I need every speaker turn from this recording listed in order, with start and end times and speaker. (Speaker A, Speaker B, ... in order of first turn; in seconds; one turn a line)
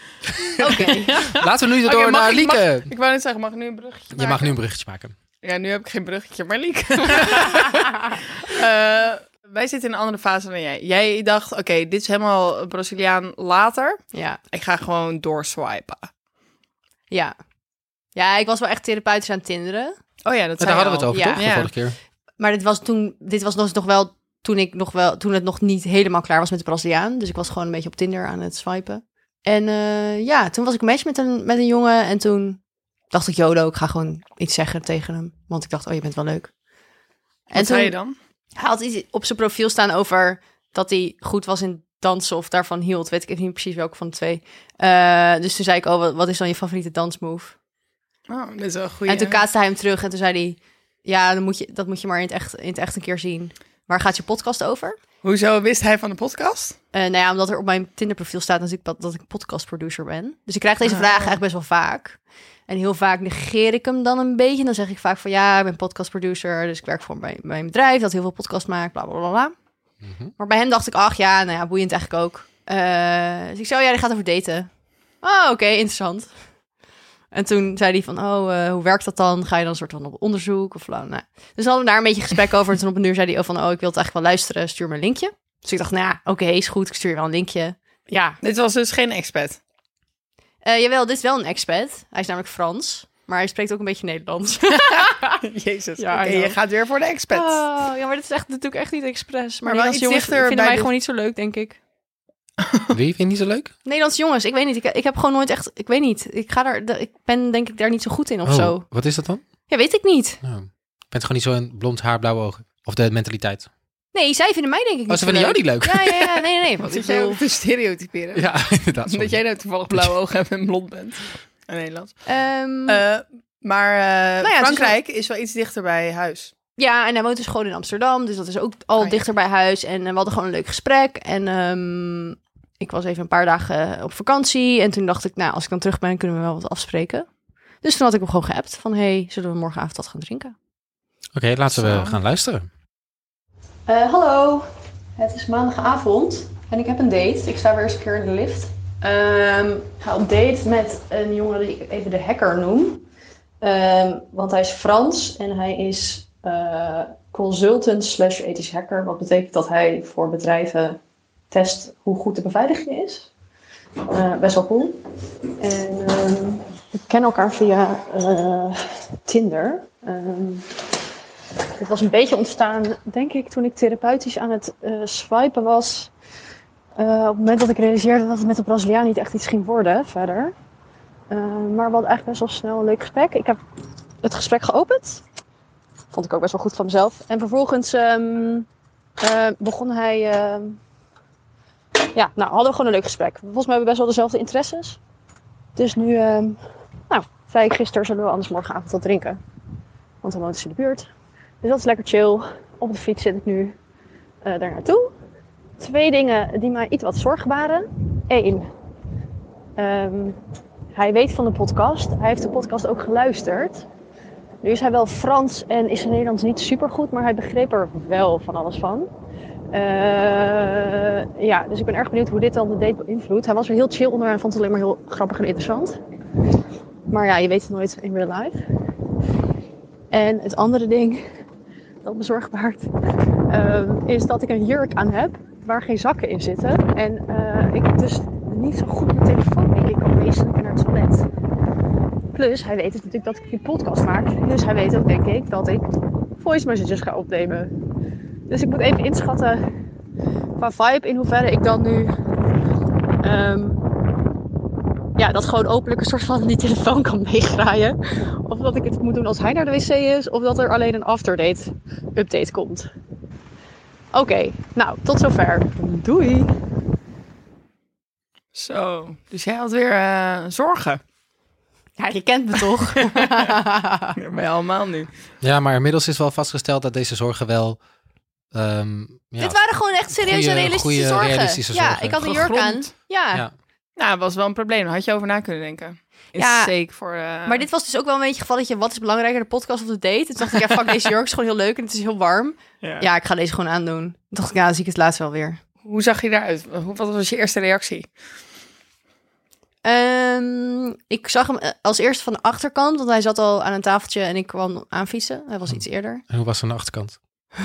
Speaker A: 0.4-2.9
Speaker B: 0.6-1.2
Speaker C: 0.7-4.5
Speaker A: 4.1-5.2
Speaker C: 5.4-14.0
Speaker B: 14.1-14.4
Speaker C: 14.5-16.1
Speaker B: 17.1-17.4
Speaker B: 18.1-20.0
Speaker C: 20.2-21.7
Speaker A: 20.6-22.0
Speaker B: 21.1-21.4
Speaker B: 22.4-32.6
Speaker B: 33.1-36.5
Speaker C: 37.5-38.1
Speaker B: 37.5-37.9
Speaker B: 38.6-47.5
Speaker C: 48.3-49.4
Speaker B: 49.1-55.0
Speaker C: 55.2-56.8
Speaker B: 56.9-69.5
Speaker C: 60.9-61.3
Speaker A: 70.0-70.3
Speaker B: 70.4-74.7
Speaker B: 75.2-76.3
Speaker B: 77.3-88.4
Speaker C: 88.4-89.6
Speaker B: 90.6-95.4
Speaker C: 95.4-97.6
Speaker B: 96.0-96.6
Speaker B: 97.3-101.8
Speaker C: 99.7-100.9
Speaker C: 102.6-102.9
Speaker A: 102.9-103.7
Speaker B: 103.8-108.9
Speaker A: 108.5-109.4
Speaker B: 109.7-110.4
Speaker A: 110.4-113.7
Speaker B: 114.1-117.4
Speaker A: 115.1-116.3
Speaker C: 116.8-118.5
Speaker A: 118.3-120.1
Speaker C: 119.0-122.2
Speaker B: 122.3-123.0
Speaker C: 122.9-126.5
Speaker B: 124.4-125.0
Speaker B: 126.8-137.3
Speaker B: 137.8-140.6
Speaker A: 141.3-142.7
Speaker C: 141.7-142.2
Speaker B: 143.9-153.0
Speaker B: 153.6-161.0
Speaker B: 161.5-163.3
Speaker B: 164.1-165.0
Speaker B: 165.6-170.7
Speaker B: 171.8-176.1
Speaker B: 177.0-180.5
Speaker B: 181.3-183.6
Speaker B: 184.2-185.2
Speaker B: 186.1-188.7
Speaker B: 189.2-190.8
Speaker B: 192.0-195.0
Speaker B: 195.8-199.4
Speaker B: 200.2-201.1
Speaker B: 201.6-203.8
Speaker B: 204.4-205.1
Speaker B: 205.8-208.7
Speaker B: 209.8-210.4
Speaker B: 210.9-213.9
Speaker B: 214.6-219.1
Speaker B: 219.7-226.0
Speaker B: 227.1-228.6
Speaker B: 230.1-231.2
Speaker B: 232.0-232.9
Speaker B: 233.5-241.3
Speaker B: 242.3-247.7
Speaker B: 248.5-249.6
Speaker B: 250.6-252.2
Speaker B: 253.2-253.8
Speaker B: 255.2-262.9
Speaker B: 264.1-266.5
Speaker C: 268.6-271.0
Speaker B: 272.0-274.2
Speaker C: 273.0-273.5
Speaker C: 274.2-275.1
Speaker A: 275.4-277.8
Speaker A: 278.5-279.6
Speaker B: 279.4-283.4
Speaker A: 280.1-282.3
Speaker C: 282.2-282.9
Speaker C: 284.0-287.6
Speaker B: 286.4-286.7
Speaker B: 287.4-295.6
Speaker C: 292.8-293.1
Speaker C: 295.9-298.1
Speaker B: 299.8-306.2
Speaker A: 305.7-307.2